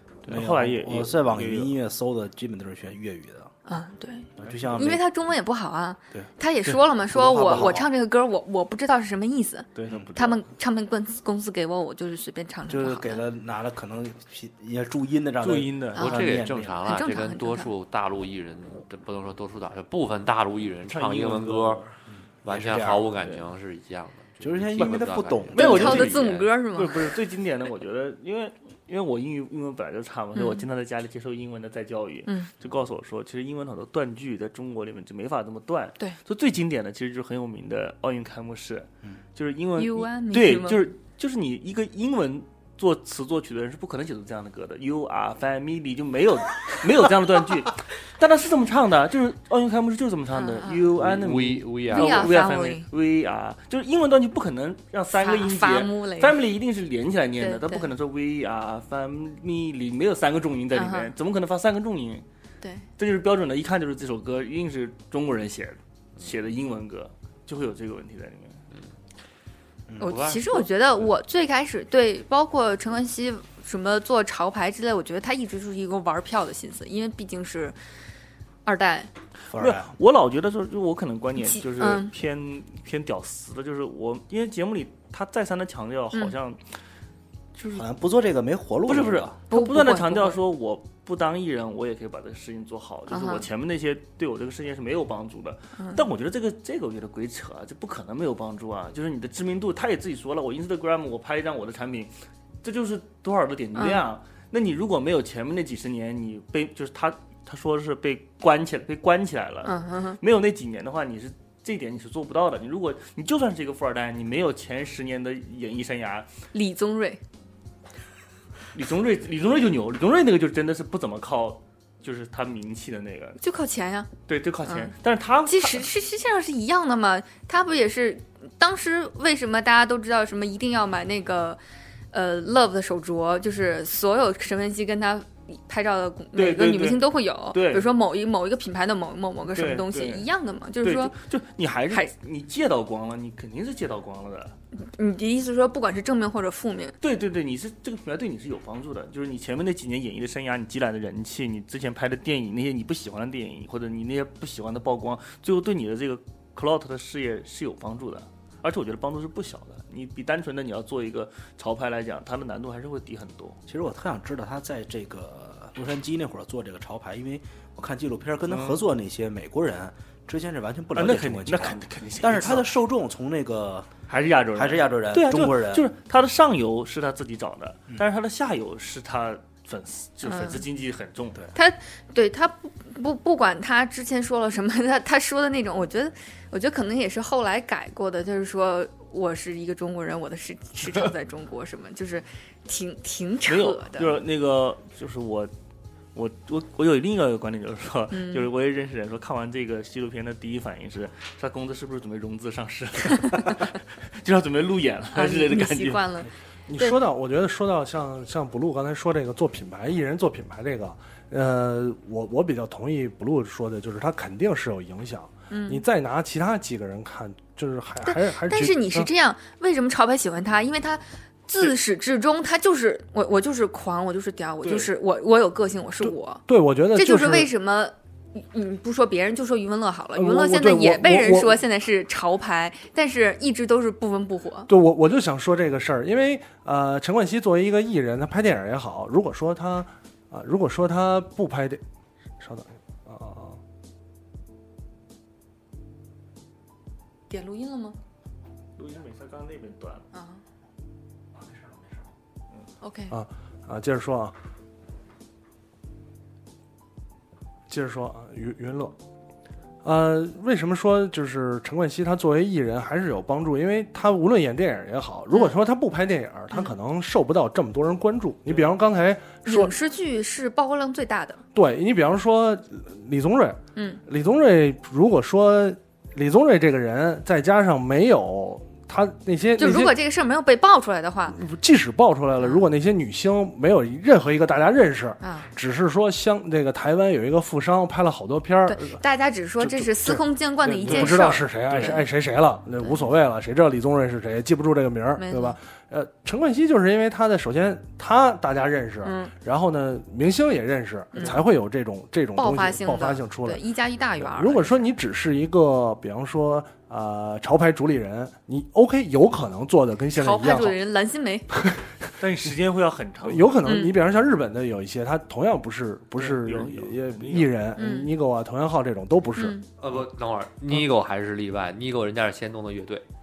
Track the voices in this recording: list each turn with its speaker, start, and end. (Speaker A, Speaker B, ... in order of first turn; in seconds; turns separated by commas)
Speaker A: 0.3-1.8, Speaker B: 0.3-3.5, Speaker C: 3.7-13.2, Speaker B: 4.4-5.0, Speaker B: 7.1-7.9, Speaker A: 9.8-10.4, Speaker B: 9.9-10.1, Speaker B: 12.7-16.8, Speaker A: 15.4-16.1, Speaker D: 16.0-21.8, Speaker C: 16.8-17.7, Speaker A: 20.9-21.9, Speaker B: 22.1-23.1, Speaker D: 22.4-26.5, Speaker A: 23.2-23.5, Speaker B: 24.4-26.2, Speaker A: 25.5-62.2, Speaker C: 25.6-27.0, Speaker C: 30.4-30.6, Speaker C: 39.8-40.9, Speaker C: 50.3-50.9, Speaker D: 51.0-52.4, Speaker C: 51.9-52.9, Speaker C: 55.1-56.4, Speaker C: 57.4-57.9, Speaker C: 60.8-61.1, Speaker A: 63.0-68.6, Speaker B: 69.9-70.1, Speaker C: 70.0-77.8, Speaker D: 70.0-70.4, Speaker C: 78.7-79.1, Speaker B: 79.5-79.9, Speaker A: 79.6-86.6, Speaker C: 81.4-82.1, Speaker A: 87.6-87.8, Speaker B: 87.7-89.4, Speaker A: 88.9-102.1, Speaker C: 89.5-90.4, Speaker C: 93.1-93.5, Speaker C: 95.8-96.0, Speaker A: 102.6-116.3, Speaker C: 103.8-104.0, Speaker C: 109.7-110.2, Speaker C: 116.5-117.2, Speaker A: 118.7-123.4, Speaker C: 123.4-124.1, Speaker A: 124.3-125.9, Speaker C: 124.7-124.9, Speaker C: 125.5-131.6, Speaker C: 132.1-141.2, Speaker A: 136.3-137.9, Speaker A: 139.5-140.3, Speaker A: 140.8-144.6, Speaker C: 144.8-146.9, Speaker A: 147.0-163.6, Speaker B: 163.7-173.9, Speaker A: 168.5-168.8, Speaker A: 170.9-172.7, Speaker A: 174.1-181.5, Speaker B: 174.6-175.9, Speaker C: 180.2-180.6, Speaker C: 181.5-194.2, Speaker A: 193.5-195.5, Speaker A: 196.2-206.1, Speaker C: 198.1-198.5, Speaker C: 205.1-207.0, Speaker E: 206.7-219.1, Speaker C: 215.5-215.8, Speaker C: 218.1-226.4, Speaker E: 226.0-227.5, Speaker C: 226.9-234.7, Speaker E: 230.1-231.6, Speaker E: 234.7-241.8, Speaker E: 242.4-243.6, Speaker C: 247.3-248.0, Speaker A: 248.8-250.1, Speaker C: 250.1-250.4, Speaker C: 252.8-253.2, Speaker E: 253.1-254.3, Speaker E: 257.7-258.9, Speaker E: 259.8-269.7, Speaker C: 269.4-271.4, Speaker E: 271.5-279.9, Speaker C: 273.8-274.0, Speaker C: 279.6-281.4, Speaker E: 281.3-289.0, Speaker C: 285.2-285.5, Speaker C: 288.7-292.0, Speaker E: 289.6-303.6, Speaker A: 290.9-292.0, Speaker C: 292.8-293.1, Speaker C: 295.2-295.6, Speaker C: 299.0-299.3, Speaker C: 301.1-301.4, Speaker C: 302.4-304.9, Speaker E: 304.2-310.8, Speaker C: 310.1-311.5, Speaker E: 311.6-311.9, Speaker A: 312.2-313.6, Speaker E: 313.2-319.6, Speaker C: 313.6-313.9, Speaker A: 316.2-317.5, Speaker C: 317.8-318.1, Speaker C: 319.4-319.7, Speaker D: 319.8-323.1